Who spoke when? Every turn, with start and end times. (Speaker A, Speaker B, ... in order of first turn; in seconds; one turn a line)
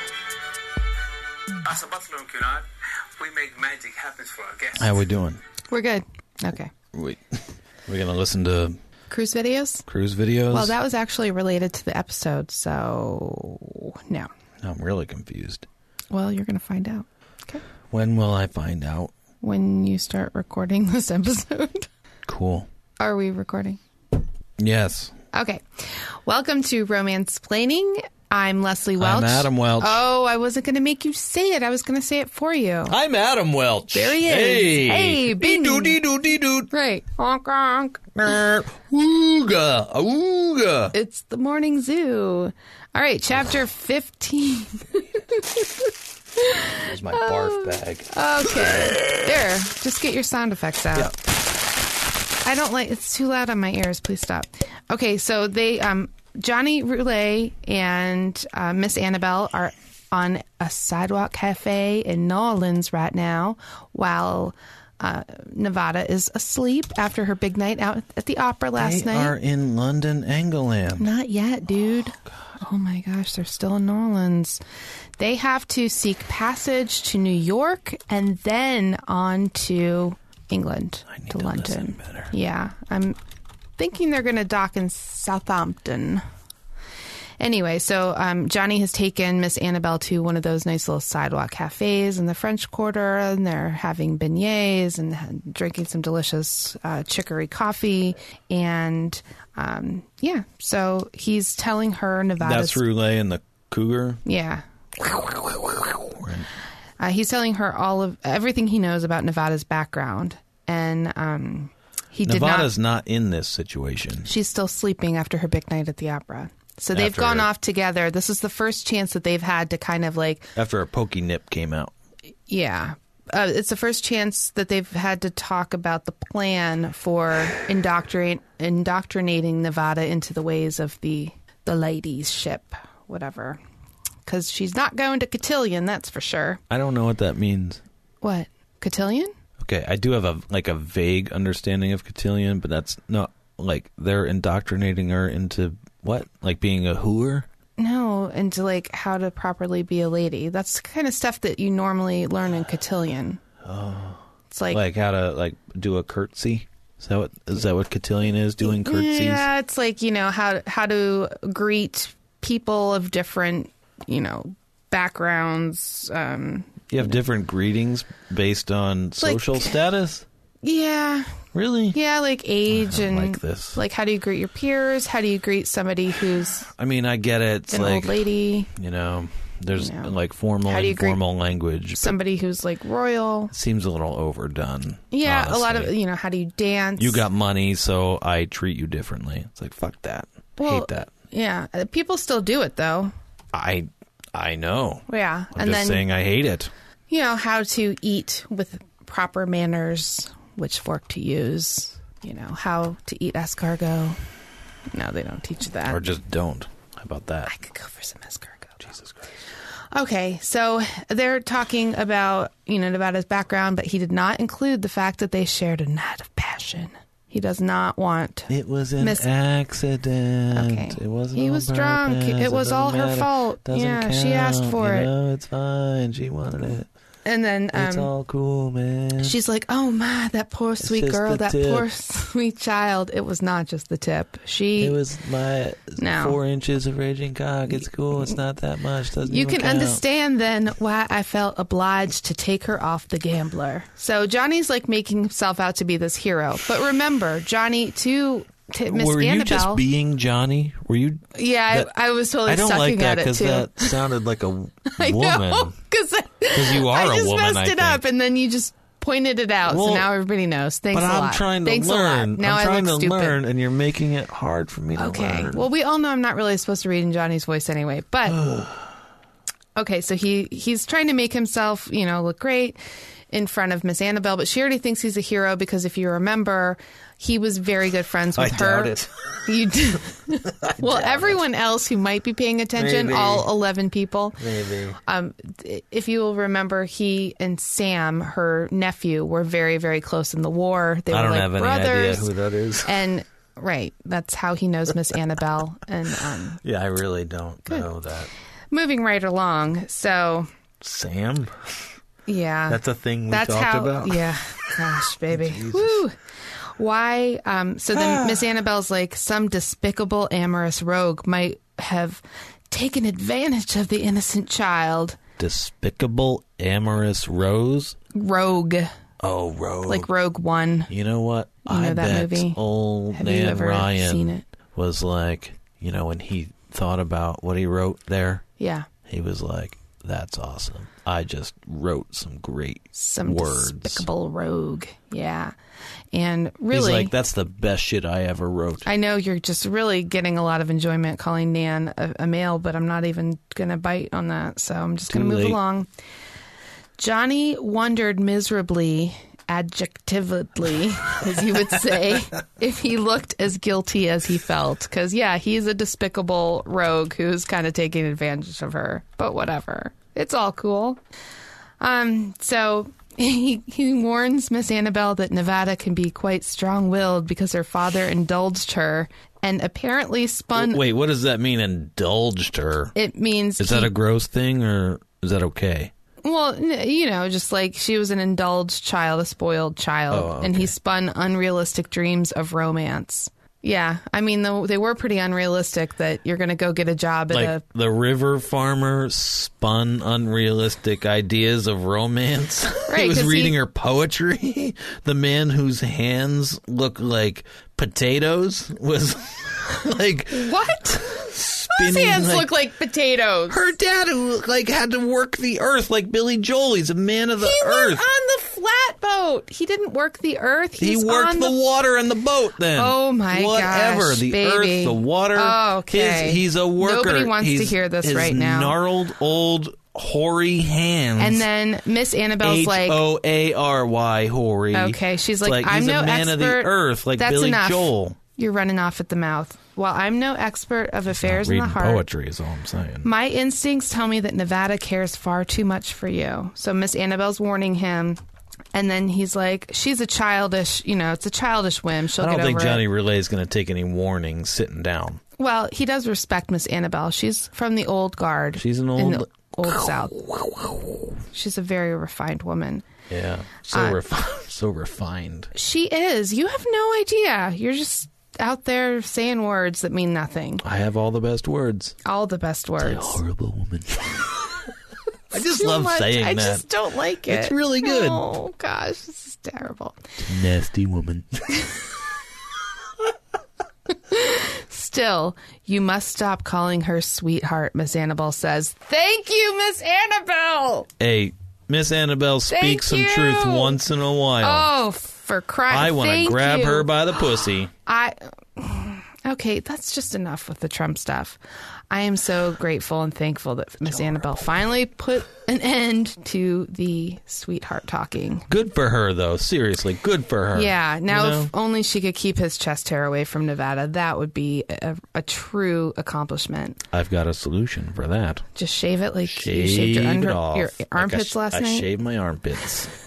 Speaker A: 1.6-5.0
Speaker B: 4.8-5.4
Speaker C: 5.7-6.7
Speaker B: 6.9-8.8
Speaker C: 9.1-9.9
Speaker B: 9.9-10.8
Speaker C: 10.5-14.3
Speaker B: 14.6-15.7
Speaker C: 16.1-17.6
Speaker B: 17.9-19.1
Speaker C: 19.4-21.9
Speaker B: 22.3-22.7
Speaker C: 23.0-23.8
Speaker B: 24.6-25.1
Speaker C: 25.3-33.0
Speaker B: 29.0-30.0
Speaker B: 32.9-36.7
Speaker C: 33.9-36.0
Speaker C: 36.7-38.2
Speaker B: 38.2-40.9
Speaker C: 40.9-51.1
Speaker B: 46.7-49.2
Speaker C: 52.4-69.3
Speaker B: 68.8-71.1
Speaker C: 71.0-74.6
Speaker C: 75.2-83.2
Speaker B: 81.1-82.3
Speaker C: 83.8-86.2
Speaker C: 87.4-102.8
Speaker B: 102.4-104.2
Speaker C: 104.2-105.5
Speaker B: 105.2-106.5
Speaker C: 107.0-112.7
Speaker B: 112.2-114.3
Speaker C: 114.2-120.5
Speaker B: 116.9-117.5
Speaker B: 120.6-121.9
Speaker C: 122.5-133.6
Speaker C: 134.3-136.6
Speaker B: 136.7-137.8
Speaker C: 138.2-139.3
Speaker B: 139.6-147.5
Speaker C: 147.8-153.4
Speaker B: 153.6-159.5
Speaker C: 154.5-154.8
Speaker C: 158.6-166.9
Speaker B: 166.9-170.3
Speaker C: 169.2-169.7
Speaker C: 170.6-171.4
Speaker B: 171.5-172.0
Speaker C: 171.9-176.7
Speaker B: 172.7-173.8
Speaker B: 176.7-182.2
Speaker C: 177.7-178.7
Speaker C: 179.8-180.1
Speaker C: 180.7-181.2
Speaker C: 181.9-183.5
Speaker B: 183.5-185.9
Speaker C: 185.1-187.2
Speaker B: 187.0-191.1
Speaker C: 190.6-193.1
Speaker B: 193.5-196.7
Speaker C: 195.1-196.1
Speaker C: 197.1-204.2
Speaker C: 204.9-206.1
Speaker B: 205.9-207.5
Speaker C: 207.5-208.9
Speaker B: 208.8-209.3
Speaker C: 209.9-219.3
Speaker B: 218.5-226.9
Speaker C: 220.5-225.1
Speaker C: 227.3-228.1
Speaker B: 227.7-229.4
Speaker C: 229.2-235.0
Speaker B: 230.8-231.9
Speaker B: 234.8-240.0
Speaker C: 236.0-236.4
Speaker C: 237.8-238.4
Speaker C: 239.2-249.8
Speaker B: 248.9-251.9
Speaker C: 251.3-254.0
Speaker B: 252.4-255.8
Speaker C: 254.9-263.4
Speaker B: 256.5-258.0
Speaker B: 259.7-260.1
Speaker B: 260.9-265.7
Speaker C: 265.0-268.4
Speaker B: 268.3-268.9
Speaker C: 269.8-272.8
Speaker C: 273.3-284.4
Speaker B: 278.4-279.5
Speaker B: 280.6-281.4
Speaker B: 282.8-283.5
Speaker B: 284.4-285.0
Speaker C: 285.0-292.3
Speaker B: 291.1-293.0
Speaker C: 292.8-296.6
Speaker B: 296.6-298.3
Speaker C: 298.7-300.5
Speaker B: 300.8-301.9
Speaker C: 302.3-306.1
Speaker B: 302.7-306.0
Speaker C: 306.8-315.2
Speaker B: 307.9-308.5
Speaker B: 315.4-318.0
Speaker C: 318.1-318.9
Speaker B: 319.2-320.1
Speaker C: 319.9-320.9
Speaker B: 320.9-328.4
Speaker C: 321.7-322.6
Speaker C: 323.1-324.5
Speaker C: 328.6-328.9
Speaker B: 329.1-334.1
Speaker C: 332.9-335.6
Speaker C: 336.1-337.1
Speaker B: 336.7-338.9
Speaker C: 338.9-345.9
Speaker B: 345.1-345.6
Speaker C: 347.0-361.0
Speaker C: 361.8-370.8
Speaker B: 370.6-372.9
Speaker C: 372.9-373.9
Speaker B: 373.6-375.9
Speaker C: 376.2-387.6
Speaker B: 380.1-380.7
Speaker B: 387.3-402.5
Speaker C: 392.9-393.6
Speaker C: 400.3-403.7
Speaker B: 403.5-408.0
Speaker C: 407.4-411.6
Speaker B: 410.8-421.5
Speaker C: 412.8-418.8
Speaker C: 421.2-423.0
Speaker B: 422.4-428.2
Speaker C: 424.7-432.1
Speaker B: 431.1-433.1
Speaker C: 433.0-438.2
Speaker C: 438.7-442.8
Speaker B: 442.2-445.2
Speaker C: 445.4-450.2
Speaker B: 448.6-451.2
Speaker C: 451.3-452.9
Speaker B: 453.1-455.5
Speaker C: 453.7-454.0
Speaker C: 455.5-460.6
Speaker B: 460.6-462.0
Speaker C: 462.1-463.2
Speaker B: 462.8-464.7
Speaker B: 465.3-466.6
Speaker C: 465.3-470.0
Speaker B: 467.3-468.2
Speaker B: 470.2-471.6
Speaker C: 473.9-480.9
Speaker B: 481.0-484.7
Speaker C: 482.5-483.8
Speaker C: 484.4-487.3
Speaker B: 485.7-487.7
Speaker C: 487.9-491.4
Speaker C: 491.9-498.5
Speaker B: 493.9-494.2
Speaker B: 498.5-501.5
Speaker C: 500.5-506.8
Speaker B: 506.9-508.4
Speaker C: 508.6-511.9
Speaker B: 509.3-512.9